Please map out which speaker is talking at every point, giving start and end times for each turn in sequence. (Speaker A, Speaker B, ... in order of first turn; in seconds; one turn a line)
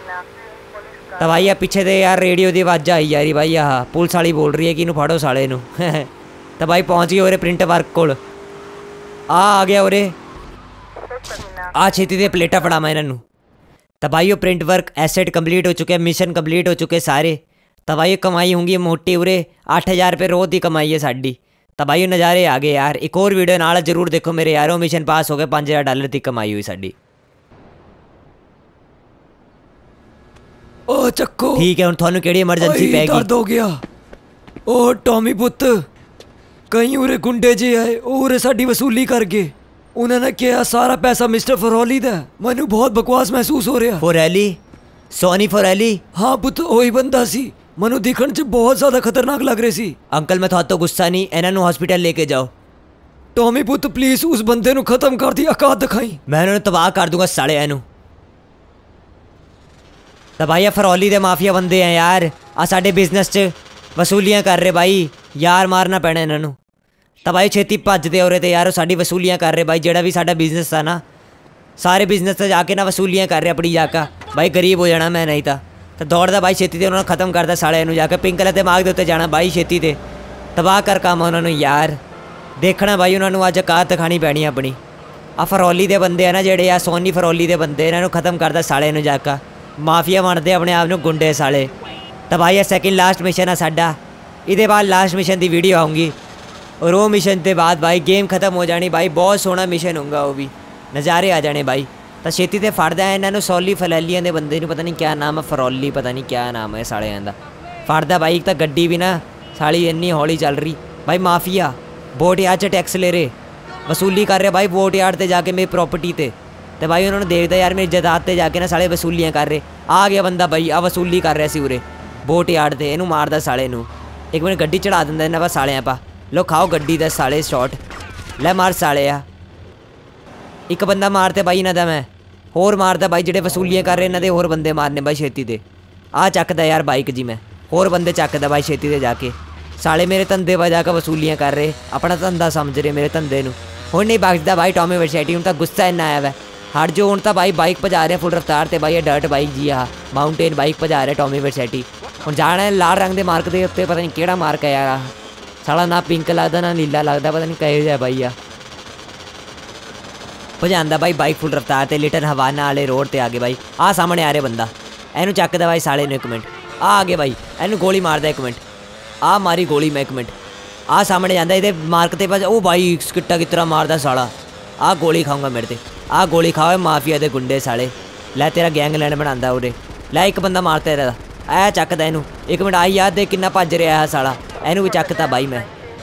Speaker A: 1.2-8.2
Speaker A: 9.3-10.1
Speaker A: 11.7-13.2
Speaker A: 14.0-26.9
Speaker B: 30.9-31.7
Speaker A: 31.6-33.3
Speaker B: 32.6-33.8
Speaker B: 34.7-35.9
Speaker B: 36.7-44.0
Speaker A: 44.0-44.6
Speaker A: 45.1-46.0
Speaker B: 46.1-49.9
Speaker A: 50.1-52.5
Speaker B: 53.3-56.2
Speaker A: 56.3-57.8
Speaker A: 60.4-66.6
Speaker A: 67.2-71.0
Speaker A: 71.8-80.0
Speaker A: 80.5-82.0
Speaker A: 82.6-84.8
Speaker A: 85.4-91.7
Speaker A: 92.3-94.0
Speaker A: 94.5-96.1
Speaker A: 96.8-113.3
Speaker A: 113.9-127.8
Speaker A: 128.4-129.2
Speaker A: 130.7-135.6
Speaker A: 136.1-155.1
Speaker A: 155.6-158.3
Speaker A: 160.6-168.6
Speaker A: 169.2-170.3
Speaker A: 170.9-185.7